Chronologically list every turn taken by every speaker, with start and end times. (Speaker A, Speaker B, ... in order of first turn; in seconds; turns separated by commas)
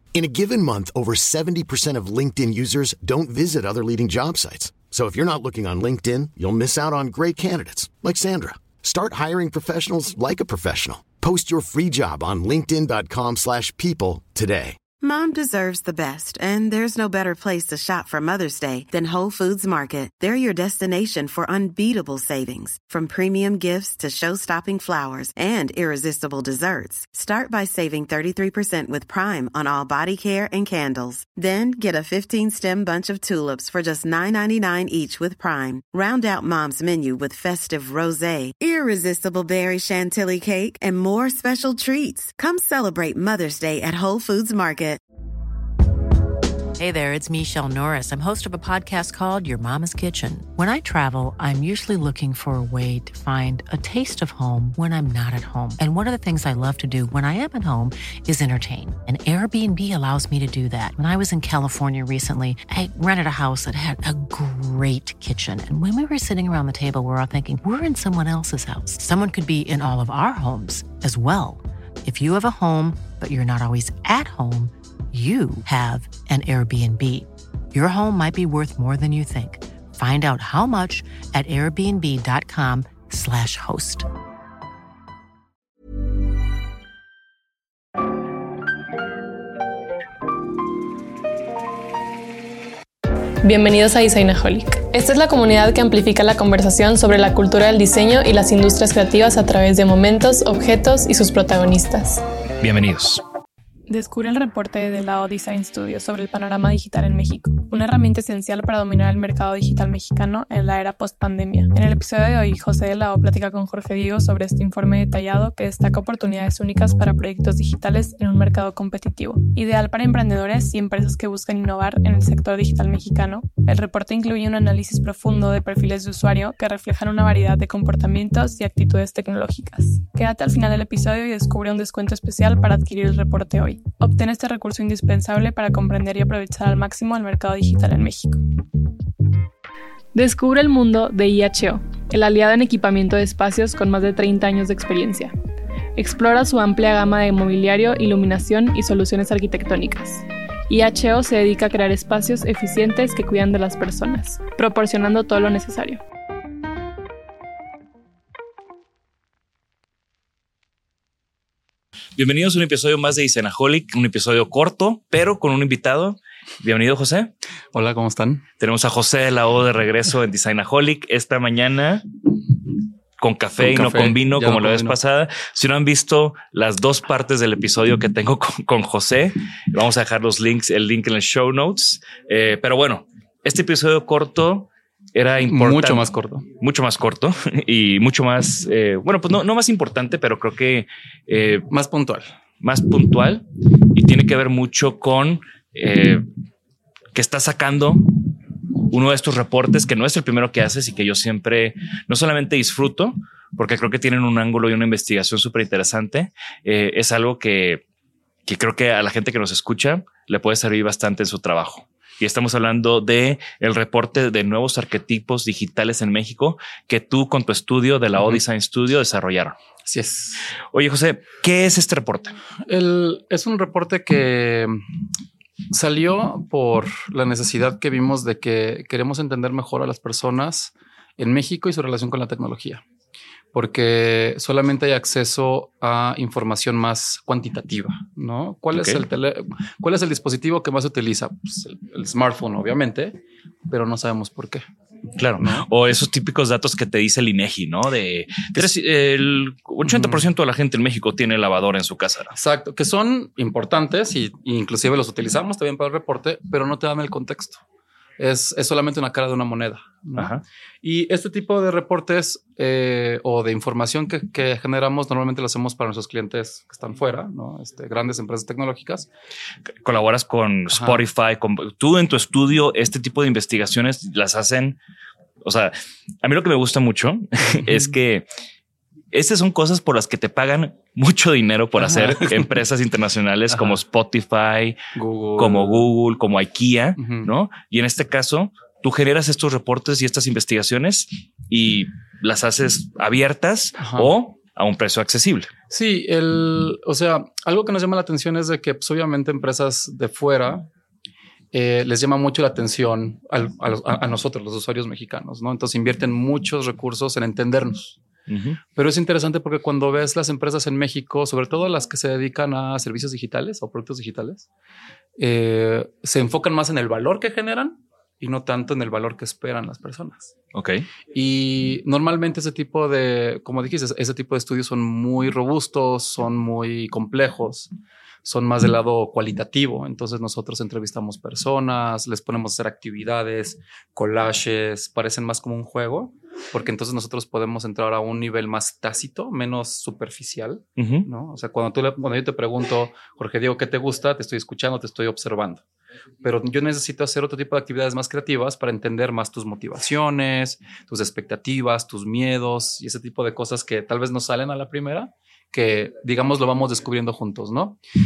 Speaker A: 0.1-14.8, Speaker B: 15.0-45.0, Speaker C: 46.8-84.1, Speaker D: 93.4-102.2, Speaker E: 102.6-103.2, Speaker D: 103.9-138.4, Speaker D: 140.1-145.3, Speaker D: 145.9-156.0, Speaker E: 162.2-167.3, Speaker F: 167.7-168.4, Speaker E: 168.6-172.1, Speaker E: 173.2-186.1, Speaker F: 173.6-174.9, Speaker F: 185.4-186.4, Speaker E: 186.6-191.7, Speaker F: 191.7-192.3, Speaker E: 192.6-196.2, Speaker E: 197.1-198.1, Speaker E: 198.9-207.8, Speaker E: 208.4-219.6, Speaker F: 219.8-220.5, Speaker E: 220.7-222.4, Speaker F: 222.7-224.8, Speaker F: 225.7-232.8, Speaker F: 233.5-244.6, Speaker E: 238.7-239.0, Speaker E: 245.2-252.3, Speaker F: 245.4-245.7, Speaker F: 249.8-250.2, Speaker F: 252.3-257.6, Speaker F: 258.2-269.1, Speaker E: 260.2-260.4, Speaker E: 269.8-274.8, Speaker F: 270.7-271.0, Speaker E: 275.4-278.3, Speaker F: 277.4-277.9, Speaker E: 279.1-284.8, Speaker F: 281.8-282.5, Speaker F: 284.9-285.9, Speaker E: 285.4-295.5, Speaker F: 287.0-287.3, Speaker F: 293.8-294.1, Speaker F: 295.7-300.7, Speaker F: 301.5-308.0, Speaker E: 308.3-308.6, Speaker F: 308.7-314.5, Speaker F: 315.2-320.3, Speaker E: 320.5-320.9, Speaker F: 321.1-327.7, Speaker F: 328.2-345.6, Speaker E: 340.8-341.1, Speaker F: 346.2-357.8